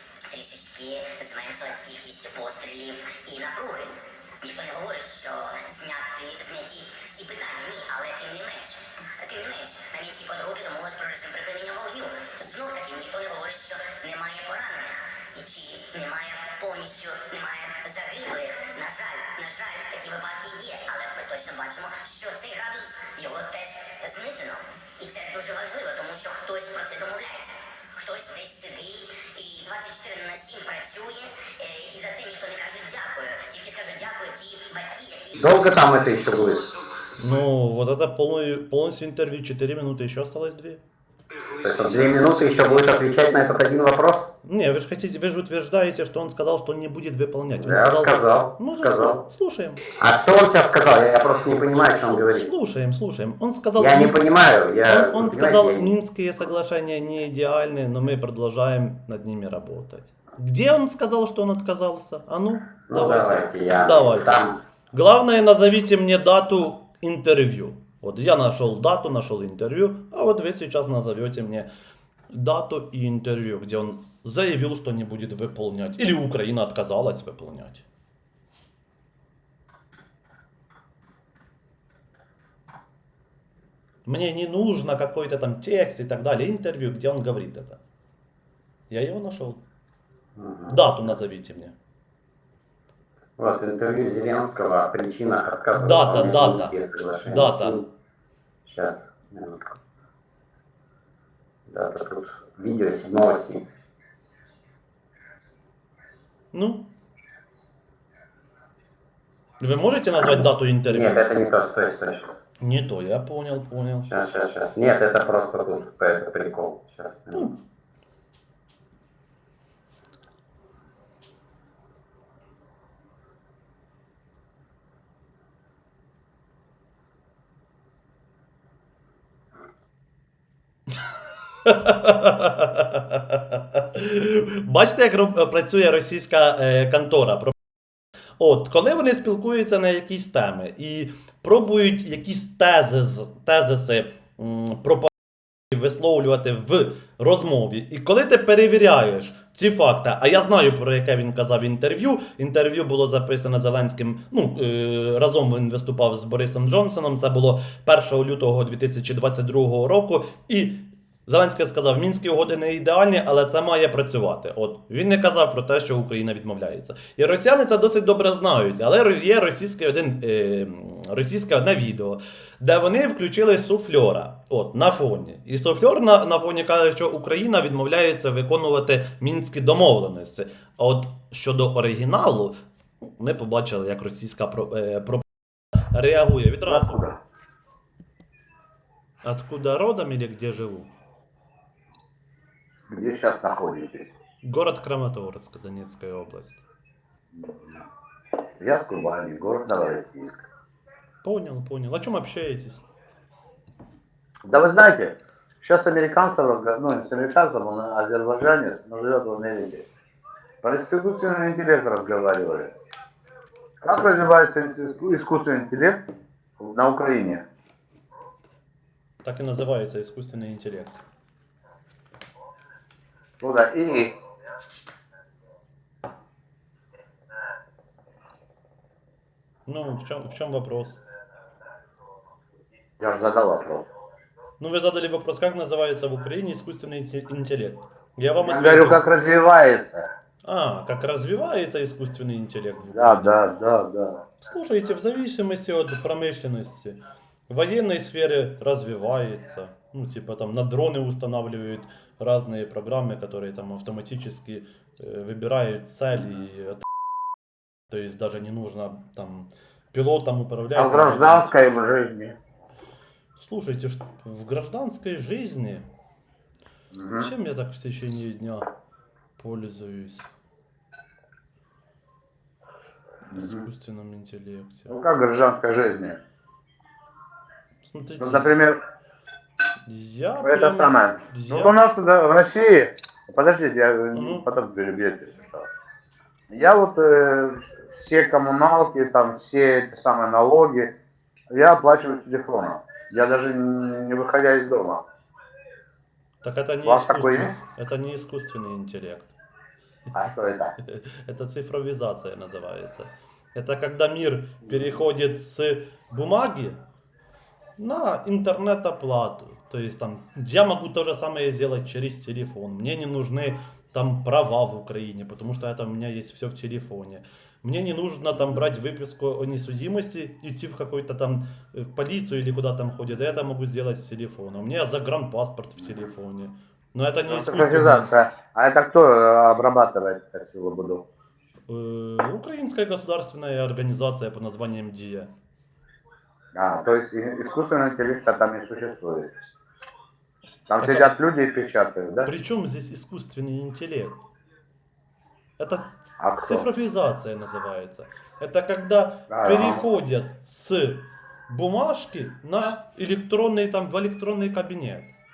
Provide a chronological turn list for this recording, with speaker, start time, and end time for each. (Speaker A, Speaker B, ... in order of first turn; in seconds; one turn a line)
Speaker A: 0.3-35.5
Speaker B: 35.4-36.7
Speaker C: 37.2-40.8
Speaker B: 41.5-44.3
Speaker C: 44.4-49.8
Speaker B: 47.6-49.2
Speaker B: 50.0-52.5
Speaker C: 52.3-54.2
Speaker B: 53.8-55.9
Speaker C: 54.8-71.7
Speaker B: 62.9-64.6
Speaker C: 72.3-77.8
Speaker C: 84.1-87.8
Speaker C: 88.9-89.6
Speaker B: 90.4-91.1
Speaker C: 90.7-91.8
Speaker B: 93.4-97.9
Speaker C: 95.8-97.8
Speaker B: 98.7-99.7
Speaker B: 101.7-103.7
Speaker C: 106.5-106.9
Speaker C: 109.6-111.2
Speaker B: 110.2-112.4
Speaker C: 112.6-114.1
Speaker B: 114.1-117.5
Speaker C: 131.7-137.6
Speaker C: 138.4-145.1
Speaker C: 145.7-185.3
Speaker C: 185.8-187.1
Speaker D: 186.7-187.2
Speaker C: 189.2-190.9
Speaker D: 192.9-194.1
Speaker C: 194.4-196.6
Speaker D: 197.3-197.8
Speaker D: 198.6-200.5
Speaker C: 201.2-202.8
Speaker D: 204.4-209.9
Speaker D: 210.6-212.7
Speaker D: 213.8-216.0
Speaker D: 216.6-217.4
Speaker C: 219.2-221.0
Speaker D: 223.4-224.2
Speaker C: 229.7-231.0
Speaker D: 233.0-233.9
Speaker C: 234.6-239.0
Speaker D: 238.4-240.1
Speaker C: 240.4-243.4
Speaker D: 242.9-244.2
Speaker C: 244.4-256.9
Speaker C: 257.9-261.5
Speaker D: 260.8-262.4
Speaker C: 263.4-265.9
Speaker D: 266.9-267.3
Speaker C: 267.2-268.7
Speaker C: 269.4-270.3
Speaker C: 273.3-275.0
Speaker D: 273.4-273.6
Speaker D: 274.9-276.2
Speaker C: 277.8-278.6
Speaker D: 278.2-278.8
Speaker C: 279.9-281.8
Speaker D: 280.4-285.7
Speaker C: 284.1-284.5
Speaker D: 286.5-290.9
Speaker D: 291.5-295.0
Speaker C: 296.4-299.3
Speaker D: 296.9-297.5
Speaker D: 300.1-300.7
Speaker C: 300.8-306.8
Speaker C: 307.8-328.1
Speaker D: 327.3-331.0
Speaker C: 331.7-335.3
Speaker D: 336.5-339.3
Speaker D: 340.7-342.3
Speaker C: 340.8-341.1
Speaker C: 342.3-344.2
Speaker C: 345.6-345.9
Speaker D: 346.2-346.7
Speaker C: 346.4-355.1
Speaker D: 349.3-349.8